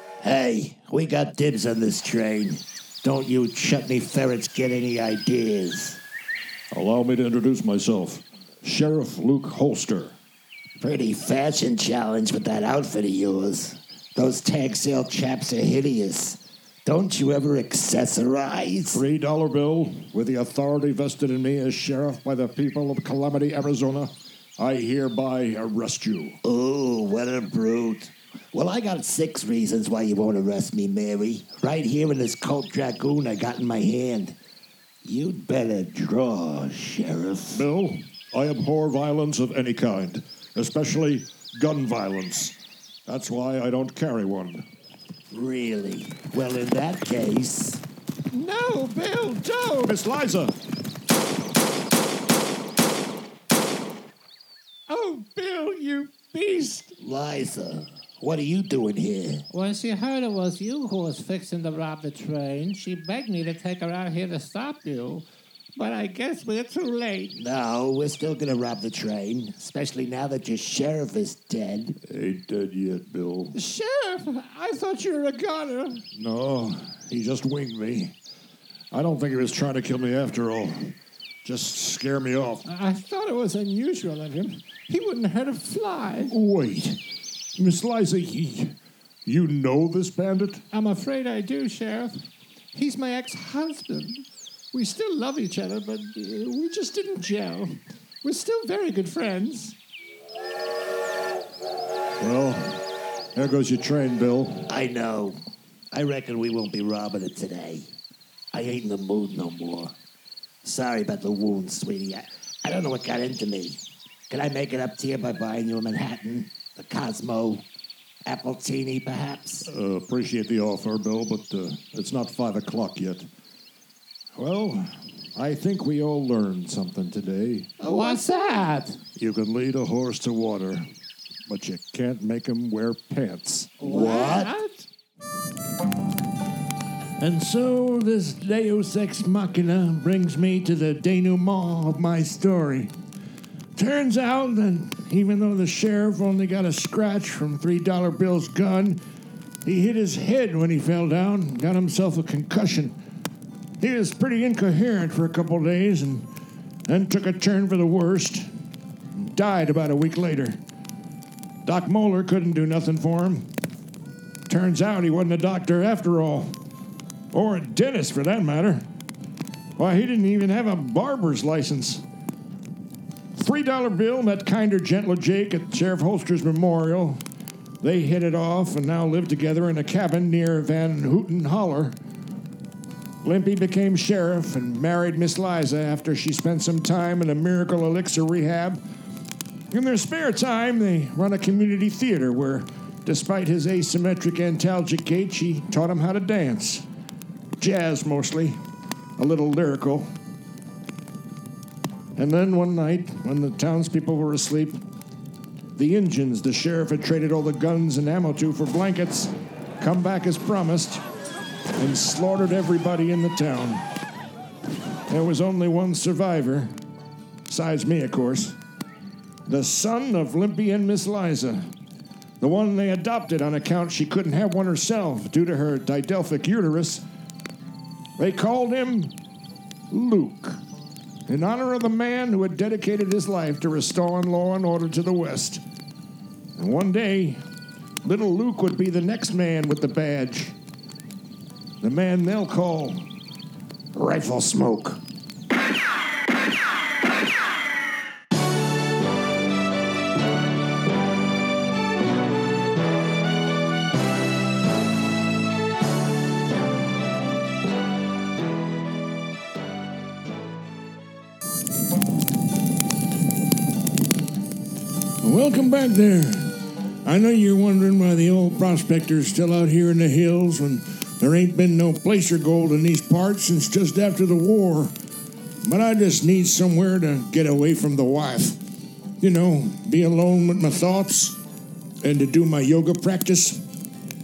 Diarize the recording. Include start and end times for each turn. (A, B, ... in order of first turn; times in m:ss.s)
0:00.2-0:06.0 A
0:06.7-0:10.2 B
0:10.8-0:19.0 A
0:18.9-0:26.4 B
0:26.4-0:34.4 A
0:35.0-0:37.6 A
0:37.5-0:44.7 B
0:45.3-0:47.8 A
0:48.3-0:49.9 C
0:49.8-0:50.5 B
0:54.9-0:56.9 C
0:57.0-0:59.4 A
0:59.5-1:07.4 C
1:07.3-1:12.0 A
1:12.0-1:13.6 B
1:13.5-1:16.0 C
1:16.1-1:18.1 B
1:18.9-1:22.7 B
1:22.7-1:26.3 C
1:26.3-1:26.9 B
1:27.6-1:28.7 B
1:29.2-1:30.7 B
1:30.7-1:32.2 C
1:32.8-1:34.1 C
1:34.8-1:37.7 C
1:38.2-1:39.7 C
1:42.2-1:42.8 B
1:43.3-1:44.7 B
1:44.7-1:45.4 A
1:45.9-1:47.9 A
1:48.5-1:49.9 A
1:50.6-1:57.6 A
1:58.2-1:59.7 A
1:59.6-2:03.3 B
2:04.3-2:07.7 B
2:07.8-2:09.0 C
2:09.2-2:10.9 B
2:11.5-2:13.8 B
2:13.8-2:14.5 A
2:13.8-2:14.8 C
2:17.2-2:22.9 D
2:23.8-2:29.0 D
2:29.6-2:33.0 D
2:33.8-2:36.3 D
2:36.8-2:38.5 D
2:39.1-2:40.6 D
2:41.6-2:43.5 D
2:44.5-2:46.5 D
2:47.3-2:48.8 D
2:49.8-2:52.0 D
2:51.2-2:51.8 B
2:53.4-2:54.5 B
2:54.3-2:57.2 D
2:57.8-3:01.9 D
3:03.2-3:08.8 D
3:09.7-3:16.8 D
3:17.6-3:18.6 D
3:19.2-3:20.0 B
3:19.6-3:20.0 D
3:22.2-3:24.7 D
3:25.8-3:29.3 D
3:29.8-3:31.0 D
3:31.8-3:33.8 D
3:35.1-3:36.7 D
3:37.5-3:38.6 D
3:39.5-3:41.6 D
3:42.4-3:47.0 D
3:46.4-3:46.7 B
3:48.2-3:49.1 D
3:49.9-3:50.6 D
3:51.3-3:55.6 D
3:56.6-3:57.4 D
3:58.0-4:00.5 D
4:01.8-4:03.0 D
4:03.9-4:05.0 D
4:25.2-4:34.9 D
4:35.6-4:38.6 D
4:39.2-4:41.4 D
4:42.0-4:43.6 D